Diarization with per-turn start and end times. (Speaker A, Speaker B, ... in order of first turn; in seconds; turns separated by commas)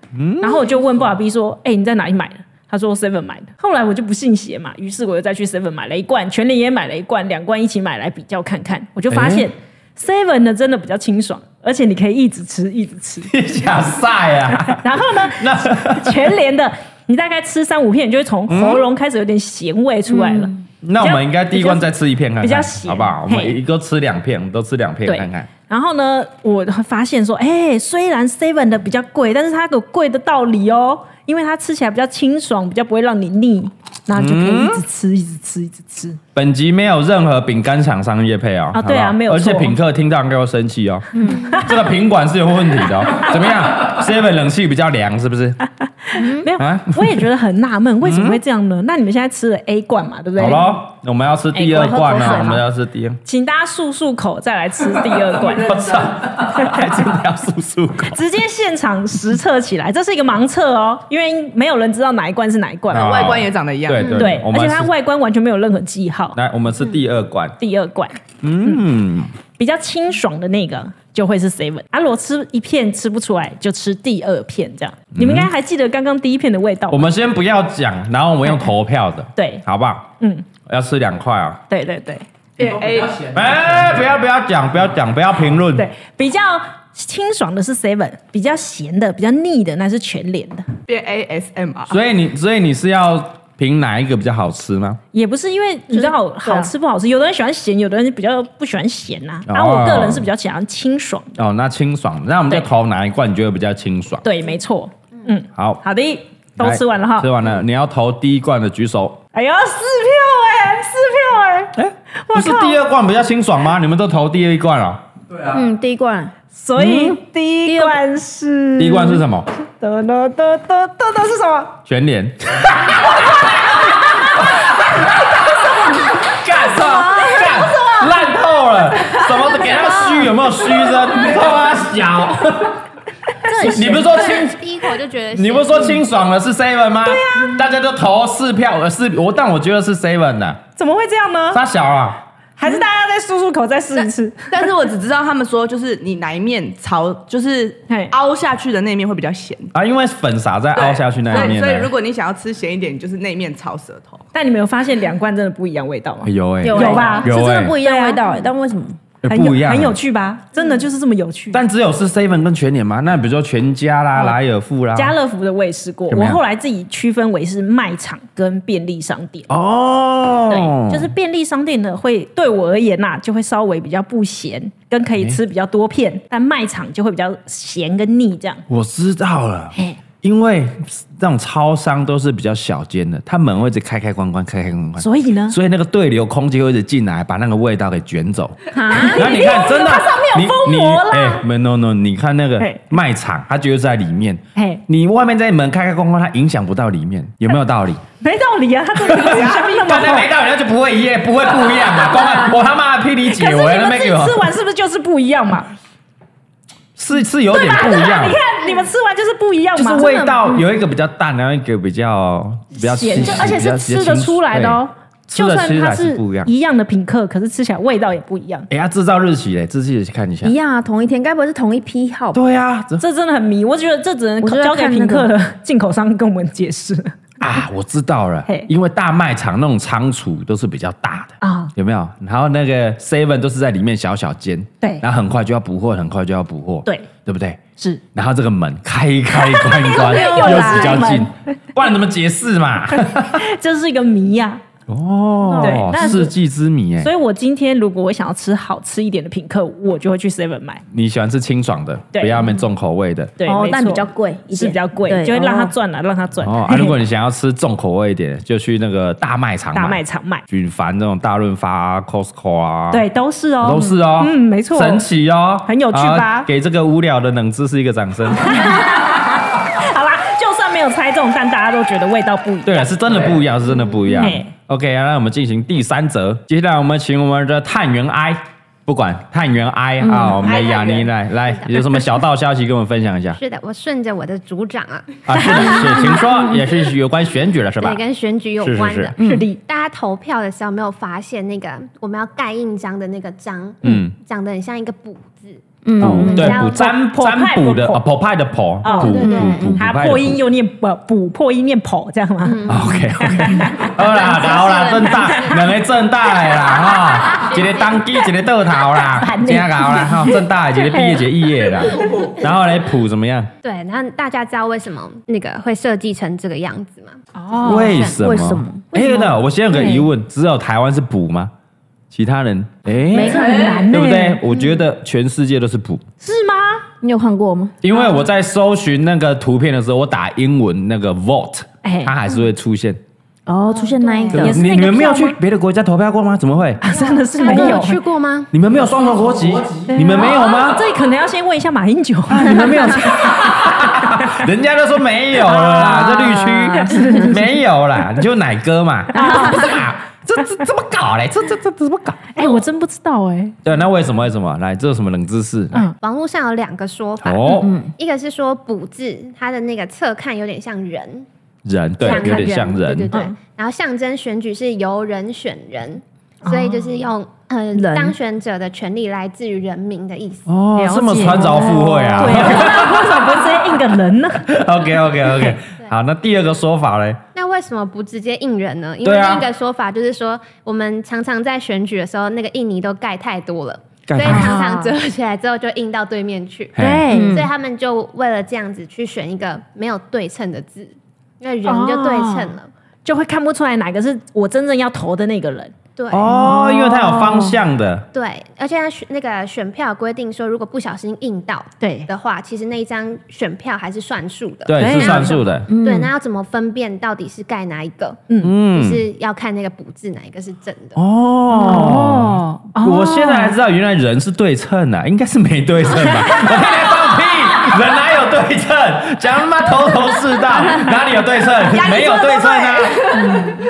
Speaker A: 0.1-0.7, Speaker B: 0.4-13.3, Speaker A: 9.1-9.4, Speaker A: 13.3-16.3, Speaker B: 14.7-21.9, Speaker A: 18.5-18.8, Speaker C: 20.1-20.6, Speaker A: 20.8-25.5, Speaker B: 22.4-23.6, Speaker B: 25.0-36.2, Speaker A: 34.1-34.8, Speaker A: 36.3-45.6, Speaker B: 38.7-39.7, Speaker C: 41.1-41.6, Speaker B: 46.1-50.8, Speaker C: 46.1-46.5, Speaker A: 46.6-47.2, Speaker A: 48.0-48.4, Speaker A: 50.4-53.2, Speaker B: 51.5-52.6, Speaker C: 51.8-52.6, Speaker B: 53.2-55.9, Speaker A: 55.5-58.2, Speaker B: 58.1-63.3, Speaker A: 62.9-64.9, Speaker D: 62.9-64.1, Speaker E: 64.0-64.3, Speaker B: 64.1-66.4, Speaker A: 66.3-67.5, Speaker B: 67.6-68.8, Speaker A: 68.4-69.3, Speaker B: 69.6-77.0, Speaker A: 75.1-75.5, Speaker A: 76.9-80.1, Speaker B: 79.3-79.6, Speaker B: 80.2-80.5, Speaker A: 80.7-81.6, Speaker B: 81.7-82.2, Speaker D: 82.6-83.3, Speaker A: 83.3-85.9, Speaker B: 85.8-90.7, Speaker D: 90.9-92.0, Speaker A: 91.9-95.0, Speaker B: 95.1-101.4, Speaker C: 95.9-96.7, Speaker A: 99.5-100.3, Speaker A: 101.4-104.2, Speaker B: 104.2-107.3, Speaker A: 105.5-105.8, Speaker A: 106.6-109.2, Speaker B: 109.3-111.7, Speaker A: 111.8-115.0, Speaker B: 112.2-112.8, Speaker C: 115.4-116.3, Speaker B: 116.5-121.8, Speaker A: 116.8-117.2, Speaker C: 117.6-118.0, Speaker A: 118.8-119.5, Speaker A: 121.9-123.4, Speaker B: 123.9-124.5, Speaker A: 126.2-132.8, Speaker B: 126.7-128.2, Speaker B: 129.2-130.2, Speaker B: 133.4-134.0, Speaker C: 133.5-134.0, Speaker A: 133.6-134.6, Speaker E: 133.8-136.0, Speaker A: 135.3-140.6, Speaker B: 137.0-137.6, Speaker B: 140.8-141.6, Speaker A: 141.5-142.2, Speaker B: 142.6-144.5, Speaker D: 144.5-149.7, Speaker A: 149.7-151.9, Speaker D: 150.7-154.2, Speaker B: 154.3-158.2, Speaker A: 156.2-157.8, Speaker C: 156.6-159.0, Speaker A: 159.2-159.9, Speaker B: 159.3-161.6, Speaker A: 161.5-165.1, Speaker B: 164.9-169.5, Speaker A: 166.1-166.4, Speaker A: 169.5-171.1, Speaker B: 170.5-178.6, Speaker A: 178.7-198.0, Speaker B: 185.0-185.6, Speaker B: 188.7-191.4, Speaker B: 194.6-194.8, Speaker B: 198.2-200.3, Speaker A: 199.0-204.5, Speaker B: 203.3-205.7, Speaker A: 207.0-208.4, Speaker B: 207.5-210.5, Speaker A: 209.8-216.5, Speaker B: 212.7-218.7, Speaker A: 218.7-220.5, Speaker C: 220.4-222.4, Speaker A: 222.3-223.0, Speaker B: 223.0-227.1, Speaker C: 224.4-225.3, Speaker A: 227.4-237.6, Speaker B: 231.4-231.7, Speaker A: 238.1-243.4, Speaker B: 239.3-241.3, Speaker C: 240.1-241.1, Speaker B: 243.1-244.6, Speaker A: 244.9-247.1, Speaker C: 245.4-246.2, Speaker B: 245.6-246.3, Speaker B: 247.0-250.8, Speaker A: 250.9-253.3, Speaker B: 252.1-252.5, Speaker B: 253.4-257.0, Speaker C: 253.4-255.7, Speaker A: 256.4-263.0, Speaker B: 259.7-260.4, Speaker B: 262.9-265.0, Speaker A: 263.6-268.7, Speaker B: 265.6-266.5, Speaker B: 268.4-273.3, Speaker A: 272.6-283.4, Speaker C: 274.1-274.4, Speaker B: 274.1-274.5, Speaker C: 280.0-280.4, Speaker B: 280.4-281.1, Speaker E: 283.4-285.2, Speaker A: 285.2-288.0, Speaker C: 285.5-286.5, Speaker E: 287.8-296.9, Speaker A: 288.6-289.1, Speaker C: 289.2-289.4, Speaker B: 289.2-289.6, Speaker A: 293.8-294.1, Speaker C: 295.8-296.6, Speaker A: 296.0-300.4, Speaker B: 296.3-298.0, Speaker B: 298.8-303.9, Speaker E: 298.9-299.6, Speaker C: 299.1-299.8, Speaker E: 302.4-305.6, Speaker A: 302.7-313.5, Speaker B: 305.2-305.5, Speaker E: 307.3-308.0, Speaker B: 309.1-311.7, Speaker E: 313.6-318.0, Speaker B: 317.3-318.1, Speaker A: 317.6-321.5, Speaker C: 317.9-318.9, Speaker B: 318.9-320.1, Speaker A: 322.1-326.0, Speaker C: 323.1-323.9, Speaker B: 323.2-324.4, Speaker E: 324.5-324.8, Speaker B: 326.2-326.8, Speaker C: 327.0-327.7, Speaker A: 327.8-333.0, Speaker B: 331.8-332.1, Speaker C: 333.5-334.6, Speaker E: 333.9-334.5, Speaker B: 334.3-335.4, Speaker A: 334.3-336.8, Speaker B: 336.8-338.0, Speaker E: 336.9-338.5, Speaker C: 337.5-337.8, Speaker A: 338.5-340.8, Speaker B: 339.9-344.4, Speaker A: 342.3-352.4, Speaker B: 345.4-347.6, Speaker B: 349.1-349.8, Speaker C: 349.2-349.4, Speaker B: 352.3-353.5, Speaker A: 353.6-355.9, Speaker E: 356.0-361.3, Speaker A: 357.2-357.7, Speaker C: 357.6-357.9, Speaker A: 361.6-363.1, Speaker E: 362.0-370.5, Speaker B: 362.1-362.5, Speaker B: 363.1-363.4, Speaker B: 366.4-366.8, Speaker C: 367.7-368.1, Speaker A: 370.5-373.4, Speaker B: 370.7-374.5, Speaker A: 374.5-377.2, Speaker E: 377.3-392.7, Speaker A: 379.0-379.5, Speaker A: 384.1-384.6, Speaker B: 384.2-384.9, Speaker A: 386.8-387.1, Speaker B: 386.8-387.4, Speaker C: 387.1-387.5, Speaker B: 391.6-395.7, Speaker E: 396.0-396.3, Speaker A: 396.1-398.1, Speaker C: 396.2-397.6, Speaker E: 398.1-411.0, Speaker B: 401.8-402.1, Speaker A: 404.6-405.7, Speaker B: 404.7-405.4, Speaker C: 405.7-406.1, Speaker A: 408.4-409.1, Speaker A: 410.9-423.1, Speaker B: 411.5-413.5, Speaker D: 421.8-423.3, Speaker B: 423.2-423.6